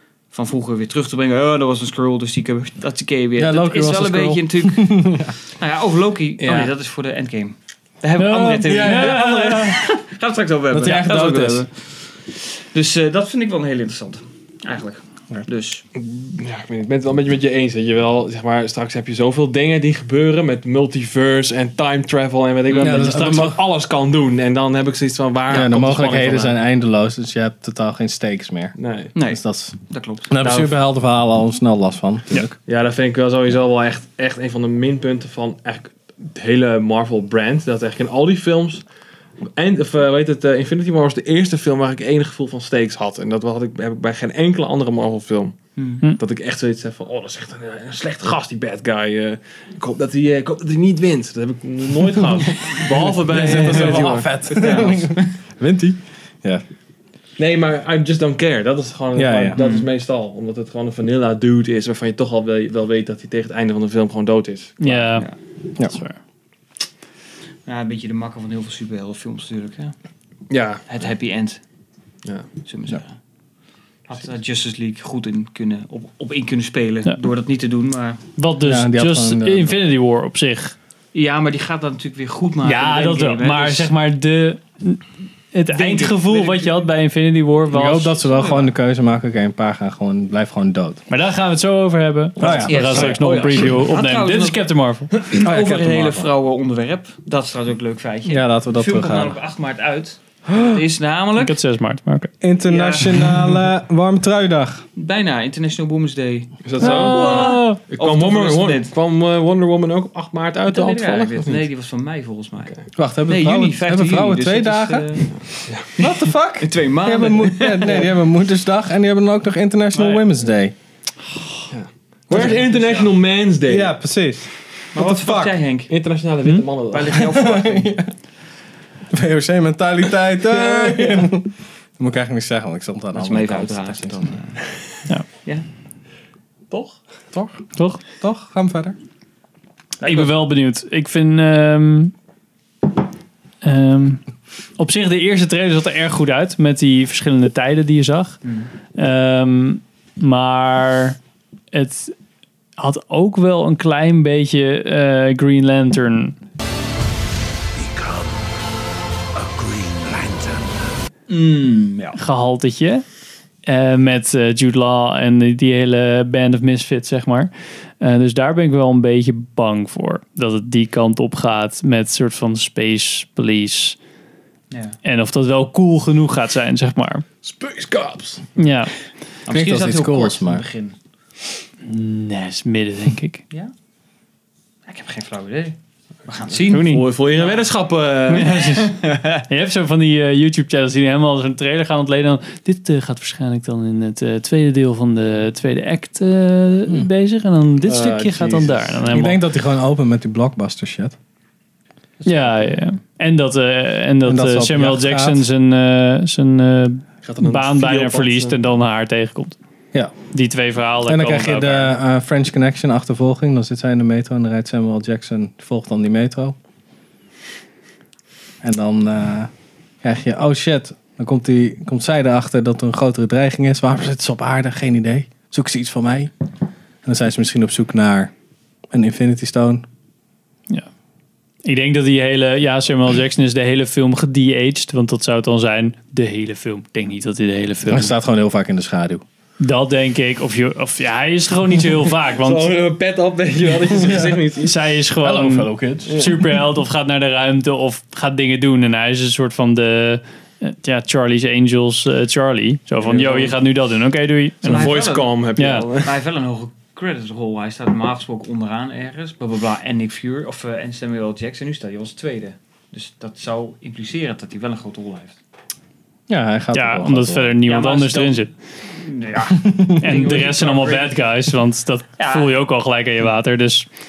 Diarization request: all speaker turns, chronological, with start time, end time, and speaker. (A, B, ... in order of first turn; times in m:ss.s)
0:00.3-0:15.8 A
0:03.4-0:05.4 B
0:06.4-0:06.7 C
0:08.2-0:09.8 D
0:08.6-0:09.6 B
0:10.7-0:11.7 B
0:16.0-0:26.6 C
0:22.7-0:23.1 A
0:22.8-0:23.6 B
0:25.5-0:29.8 B
0:28.8-0:29.1 C
0:29.2-0:30.3 A
0:30.3-0:32.6 B
0:30.4-0:30.7 C
0:32.6-0:38.8 C
0:39.4-0:55.0 C
0:45.8-0:46.0 A
0:53.0-0:56.6 B
0:54.5-0:55.3 A
0:57.4-1:05.1 C
0:59.1-0:59.6 B
0:59.5-0:59.9 A
1:04.8-1:05.3 D
1:05.8-1:06.2 D
1:07.7-1:10.0 A
1:10.5-1:10.8 C
1:10.9-1:11.6 A
1:12.2-1:12.5 C
1:12.6-1:13.2 A
1:14.1-1:18.2 A
1:18.4-1:20.8 D
1:18.6-1:19.8 B
1:21.1-1:23.9 A
1:22.6-1:28.2 D
1:25.7-1:26.9 A
1:27.7-1:31.0 B
1:28.3-1:28.7 A
1:31.1-1:35.1 D
1:32.4-1:33.7 B
1:32.4-1:41.6 A
1:35.3-1:36.3 B
1:38.3-1:39.4 B
1:41.4-1:42.3 D
1:42.4-1:44.8 B
1:42.7-1:43.6 A
1:45.0-1:48.9 A
1:46.6-1:51.6 C
1:46.8-1:47.8 D
1:50.7-1:55.3 A
1:53.0-2:00.7 B
1:55.6-1:55.9 C
1:56.0-1:58.0 A
1:59.9-2:00.2 D
2:01.7-2:04.0 C
2:02.3-2:03.2 A
2:03.7-2:05.6 B
2:04.9-2:05.9 A
2:05.9-2:07.3 C
2:06.9-2:08.0 A
2:07.2-2:08.1 B
2:09.1-2:14.4 B
2:10.5-2:11.3 C
2:13.1-2:14.6 A
2:16.7-2:17.5 C
2:17.3-2:19.0 B
2:17.8-2:18.0 D
2:20.0-2:20.3 C
2:20.0-2:22.1 D
2:23.6-2:24.2 D
2:24.8-2:28.4 D
2:28.4-2:28.7 A
2:28.9-2:31.2 D
2:31.7-2:32.2 D
2:32.8-2:36.4 D
2:37.8-2:38.6 E
2:39.3-2:41.0 E
2:41.3-2:42.2 A
2:42.2-2:43.0 D
2:43.6-2:54.0 D
2:54.7-2:55.0 A
2:55.0-2:57.2 D
2:57.4-2:58.5 C
2:58.6-2:58.9 D
2:59.5-3:01.0 A
2:59.5-3:00.6 B
3:01.8-3:03.4 D
3:04.9-3:07.7 A
3:06.5-3:08.8 C
3:06.7-3:07.1 D
3:08.3-3:09.4 A
3:08.3-3:19.4 D
3:17.8-3:19.1 C
3:19.1-3:21.2 B
3:22.2-3:29.6 D
3:24.2-3:25.4 B
3:27.2-3:28.7 C
3:30.3-3:31.9 D
3:31.0-3:36.6 B
3:38.6-3:39.5 B
3:40.0-3:46.3 B
3:47.0-3:48.3 B
3:48.9-3:49.8 B
3:51.6-3:58.1 D
3:57.9-3:59.2 B
3:59.6-4:02.7 D
4:02.4-4:04.8 C
4:03.9-4:04.4 B
4:04.6-4:15.0 D
4:05.2-4:06.3 B
4:13.0-4:13.6 C
4:14.6-4:16.1 C
4:14.6-4:25.4 A
4:15.6-4:15.9 D
4:26.3-4:27.6 B
4:26.7-4:28.5 D
4:27.7-4:31.1 A
4:30.0-4:33.9 D
4:30.2-4:30.9 C
4:32.2-4:32.6 A